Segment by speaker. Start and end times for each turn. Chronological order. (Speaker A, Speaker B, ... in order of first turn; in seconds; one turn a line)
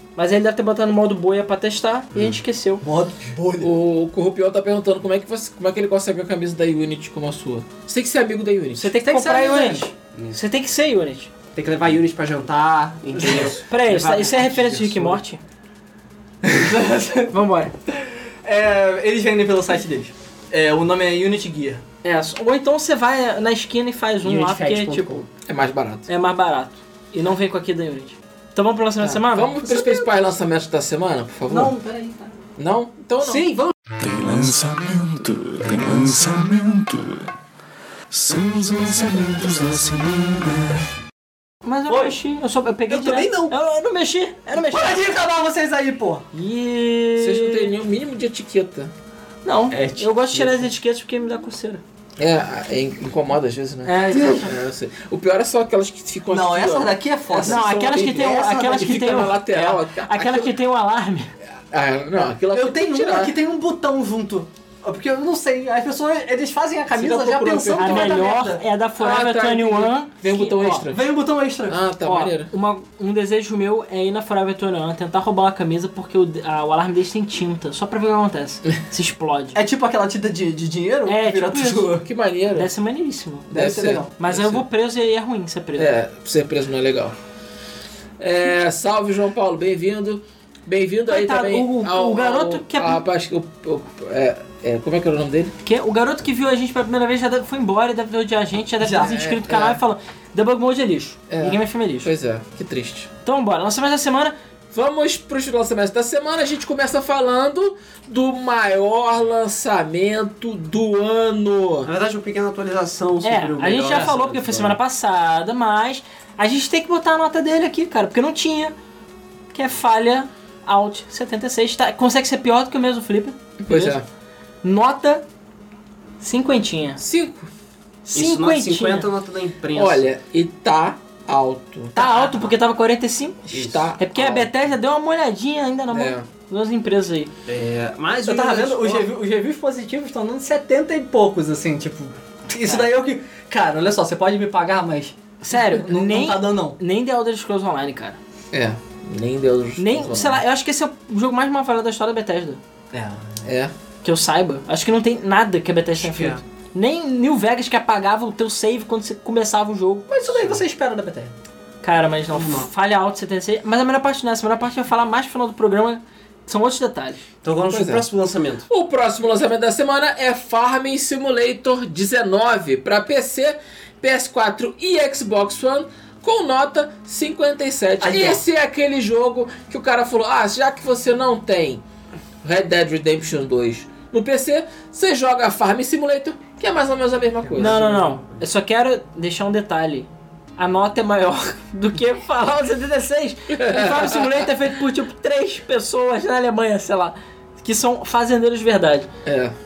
Speaker A: 0.1-2.8
Speaker B: 2.1-2.4
Speaker C: 2.8-3.7
Speaker D: 3.6-8.9
Speaker A: 8.8-11.3
Speaker C: 9.0-9.9
Speaker B: 11.5-15.2
Speaker A: 13.7-15.4
Speaker C: 16.4-17.3
Speaker A: 17.3-17.7
Speaker C: 18.4-21.8
Speaker A: 22.0-25.2
Speaker B: 24.2-25.3
Speaker D: 25.5-26.1
Speaker A: 26.1-29.5
Speaker D: 29.0-31.8
Speaker C: 29.7-30.0
Speaker C: 31.5-32.3
Speaker D: 32.6-33.5
Speaker E: 34.0-37.3
Speaker E: 38.1-40.8
Speaker A: 41.6-45.0
Speaker C: 41.9-42.2
Speaker B: 42.9-43.5
Speaker C: 44.5-46.2
Speaker A: 46.3-47.7
Speaker D: 47.2-48.9
Speaker A: 49.4-51.8
Speaker B: 49.7-50.7
Speaker D: 52.2-60.5
Speaker A: 53.9-54.5
Speaker C: 53.9-54.5
Speaker C: 56.3-58.9
Speaker A: 57.4-61.3
Speaker D: 61.7-63.4
Speaker C: 62.5-68.6
Speaker D: 66.9-68.2
Speaker A: 67.8-70.8
Speaker D: 69.0-71.0
Speaker C: 70.9-71.8
Speaker D: 71.7-72.5
Speaker A: 72.0-79.6
Speaker C: 79.5-82.0
Speaker A: 81.0-81.9
Speaker D: 82.0-82.7
Speaker A: 82.5-83.5
Speaker D: 83.5-84.6
Speaker C: 83.5-84.1
Speaker A: 84.2-85.9
Speaker D: 85.8-87.1
Speaker D: 88.2-95.5
Speaker A: 91.1-93.0
Speaker A: 95.6-102.1
Speaker C: 98.8-99.1
Speaker D: 98.9-99.8
Speaker D: 101.3-103.1
Speaker A: 103.2-104.3
Speaker D: 104.7-111.9
Speaker B: 111.8-114.8
Speaker A: 113.2-118.7
Speaker A: 119.5-124.0
Speaker D: 123.6-124.0
Speaker A: 124.6-125.2
Speaker A: 126.2-127.0
Speaker D: 127.0-127.5
Speaker A: 128.0-129.1
Speaker B: 128.1-130.1
Speaker D: 129.7-132.2
Speaker A: 131.9-133.4
Speaker B: 132.0-132.4
Speaker D: 133.5-134.4
Speaker B: 133.5-133.9
Speaker A: 134.0-137.3
Speaker D: 135.9-136.2
Speaker B: 137.4-139.1
Speaker C: 138.3-146.8
Speaker A: 145.4-148.2
Speaker D: 148.5-150.4
Speaker A: 149.8-152.6
Speaker C: 152.9-153.4
Speaker D: 153.4-153.7
Speaker A: 154.0-160.1
Speaker B: 155.9-156.4
Speaker C: 160.1-161.3
Speaker B: 160.3-160.6
Speaker A: 161.8-167.2
Speaker B: 162.3-162.7
Speaker B: 167.4-168.7
Speaker D: 167.7-168.0
Speaker D: 168.7-181.8
Speaker C: 178.1-178.4
Speaker D: 182.4-187.9
Speaker B: 187.4-188.4
Speaker A: 187.6-199.1
Speaker D: 193.5-194.3
Speaker D: 199.2-199.5